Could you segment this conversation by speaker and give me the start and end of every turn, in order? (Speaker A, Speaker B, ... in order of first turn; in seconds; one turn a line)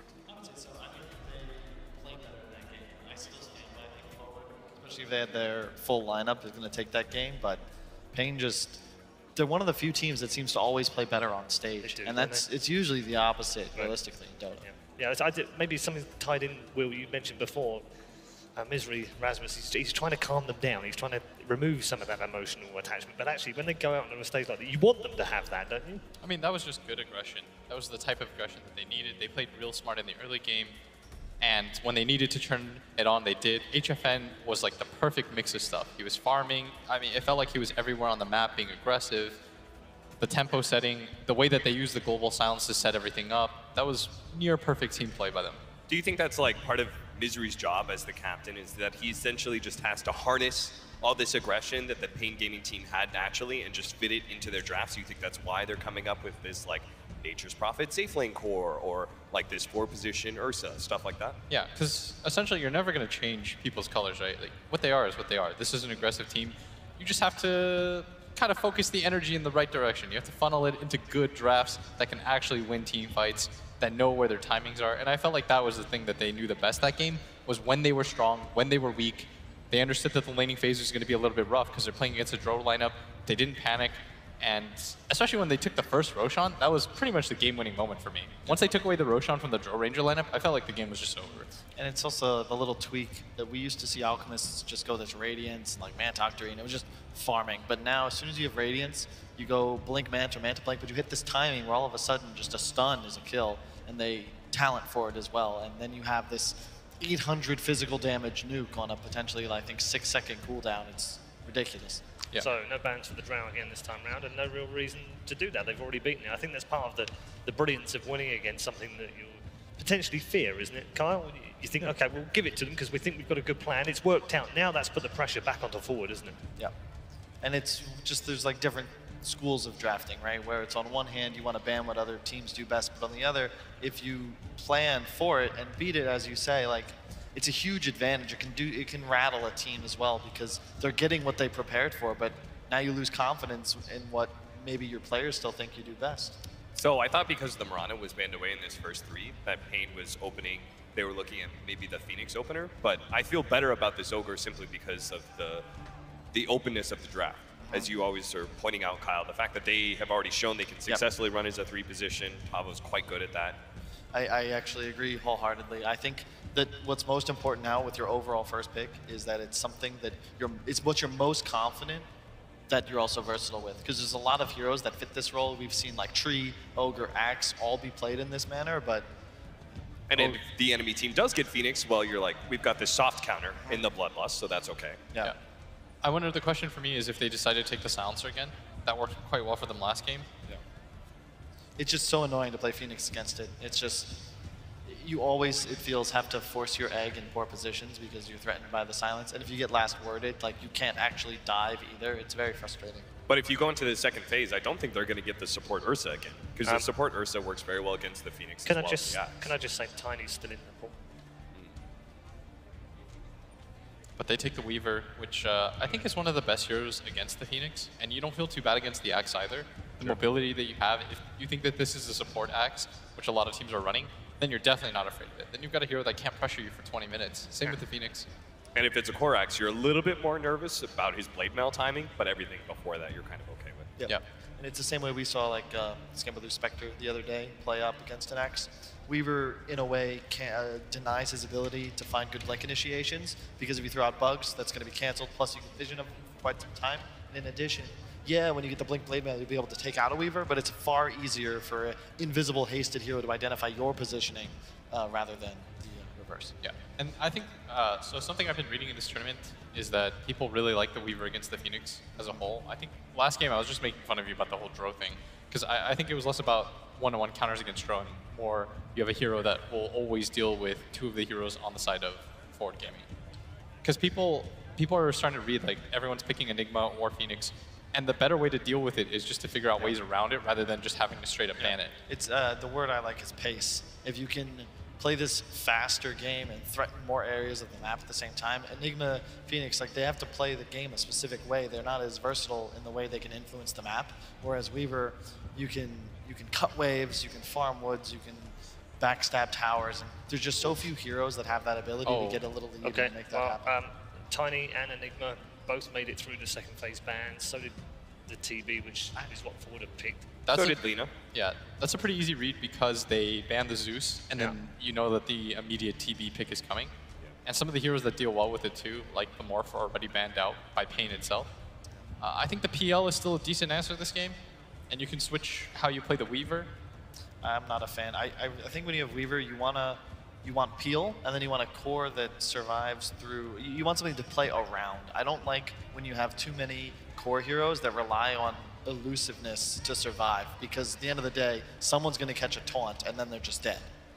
Speaker A: 0.3-8.8
Speaker A: 9.4-14.6
Speaker B: 11.8-12.4
Speaker B: 14.6-17.8
Speaker B: 18.6-26.0
Speaker C: 26.2-30.8
Speaker C: 31.4-39.4
Speaker C: 40.2-45.6
Speaker D: 45.9-61.4
Speaker C: 61.5-91.5
Speaker A: 91.8-112.0
Speaker B: 112.4-126.4
Speaker A: 127.4-146.4
Speaker D: 146.8-155.7
Speaker D: 156.3-163.6
Speaker A: 157.6-157.9
Speaker A: 164.1-172.1
Speaker A: 172.7-179.1
Speaker D: 180.1-185.1
Speaker A: 180.2-180.4
Speaker C: 186.0-190.3
Speaker A: 191.8-194.3
Speaker A: 194.8-203.1
Speaker D: 203.3-209.3
Speaker B: 206.6-206.9
Speaker B: 208.7-210.9
Speaker C: 214.2-228.3
Speaker D: 228.8-233.9
Speaker A: 234.0-256.6
Speaker C: 256.6-273.1
Speaker C: 273.8-281.9
Speaker A: 281.6-303.8
Speaker C: 302.1-302.4
Speaker B: 302.8-307.7
Speaker B: 308.3-310.4
Speaker C: 310.5-316.9
Speaker D: 310.5-311.1
Speaker C: 317.4-321.5
Speaker C: 322.2-324.4
Speaker C: 324.9-326.7
Speaker A: 327.4-343.9